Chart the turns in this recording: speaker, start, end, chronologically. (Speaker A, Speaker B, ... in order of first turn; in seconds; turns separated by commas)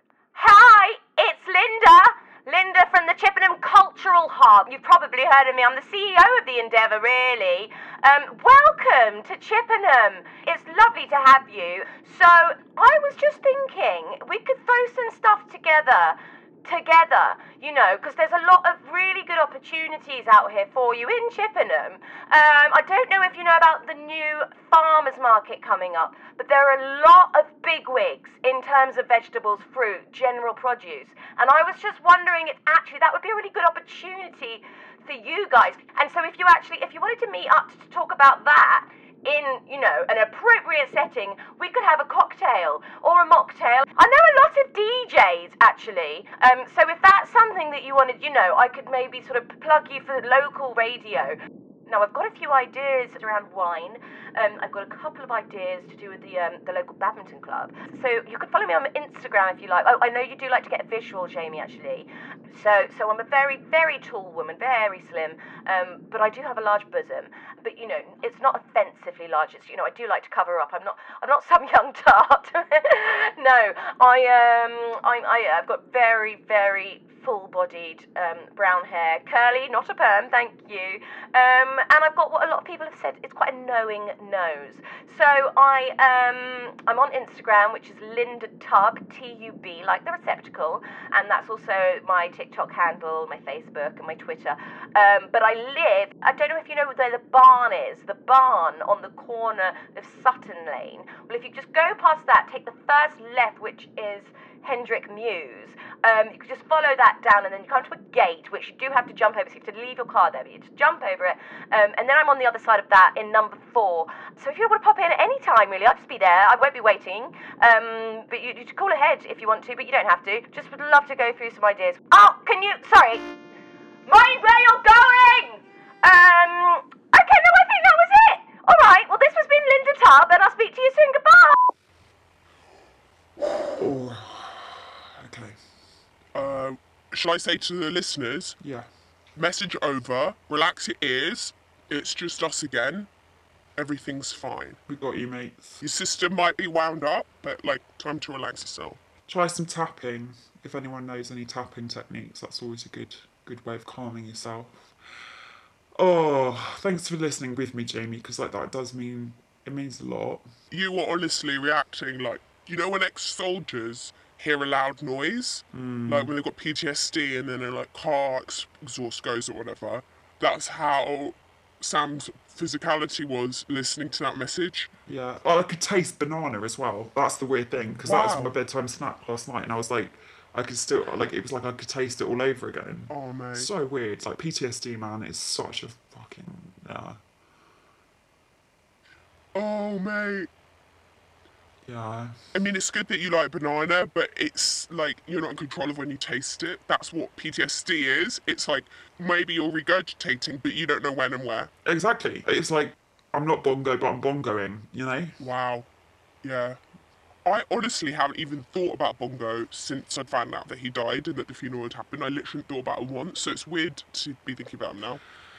Speaker A: 0.3-51.4, Speaker A: 51.9-123.3, Speaker A: 124.0-131.7, Speaker B: 133.8-135.6, Speaker C: 136.3-138.6, Speaker B: 138.6-138.9, Speaker C: 139.3-143.1, Speaker C: 143.8-144.8, Speaker B: 144.9-145.8, Speaker C: 145.8-149.0, Speaker B: 149.3-154.9, Speaker B: 156.0-160.4, Speaker C: 160.7-174.9, Speaker B: 165.7-166.3, Speaker B: 175.1-187.2, Speaker C: 178.0-178.6, Speaker C: 183.1-183.7, Speaker C: 189.5-190.5, Speaker B: 191.8-192.3, Speaker C: 192.5-201.7, Speaker B: 201.8-205.4, Speaker C: 205.4-205.9, Speaker C: 206.4-206.8, Speaker C: 207.4-215.2